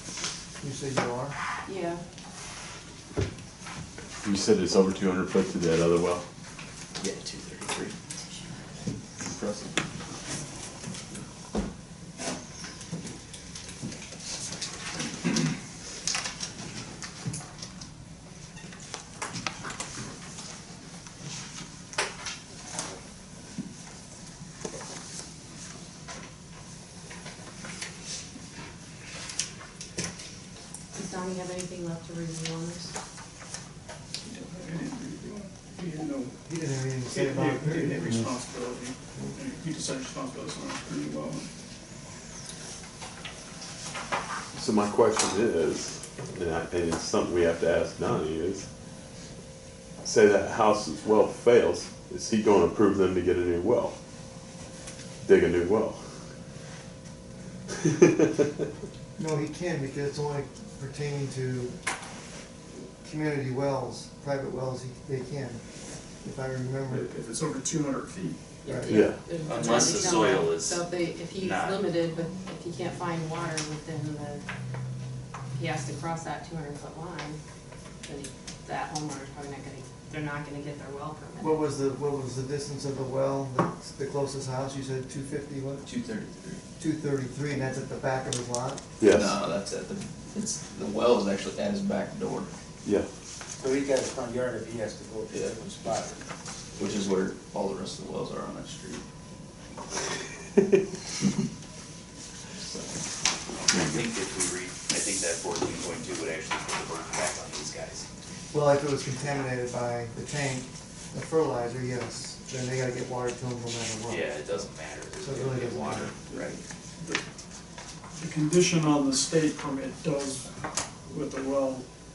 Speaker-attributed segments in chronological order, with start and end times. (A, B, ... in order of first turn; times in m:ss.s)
0:00.6-0:01.4 A
0:01.6-0:02.0 B
0:04.2-0:06.2 C
0:07.0-0:07.9 D
0:09.3-0:09.8 D
0:30.9-0:32.9 B
0:34.2-0:36.4 E
0:36.4-0:38.3 A
0:37.0-0:41.5 E
0:44.5-0:48.6 C
0:50.0-0:53.9 C
0:55.2-0:56.0 C
0:57.8-0:58.2 C
0:59.2-1:01.8 A
1:02.8-1:05.6 A
1:06.2-1:07.1 A
1:06.9-1:08.4 E
1:08.6-1:14.4 B
1:08.7-1:09.0 A
1:08.9-1:09.2 C
1:09.4-1:10.8 F
1:11.4-1:11.8 F
1:15.5-1:17.4 B
1:18.0-1:21.6 B
1:21.4-1:25.9 A
1:25.8-1:26.6 D
1:26.8-1:28.8 A
1:29.0-1:29.4 C
1:29.1-1:32.5 D
1:33.6-1:36.2 G
1:35.3-1:35.7 D
1:36.8-1:39.0 D
1:42.6-1:43.0 D
1:43.6-1:48.0 F
1:43.7-1:44.0 C
1:48.5-1:54.7 A
1:54.1-1:56.6 F
1:55.2-1:56.1 A
1:56.3-1:57.2 E
1:58.2-2:00.5 E
2:01.1-2:01.8 E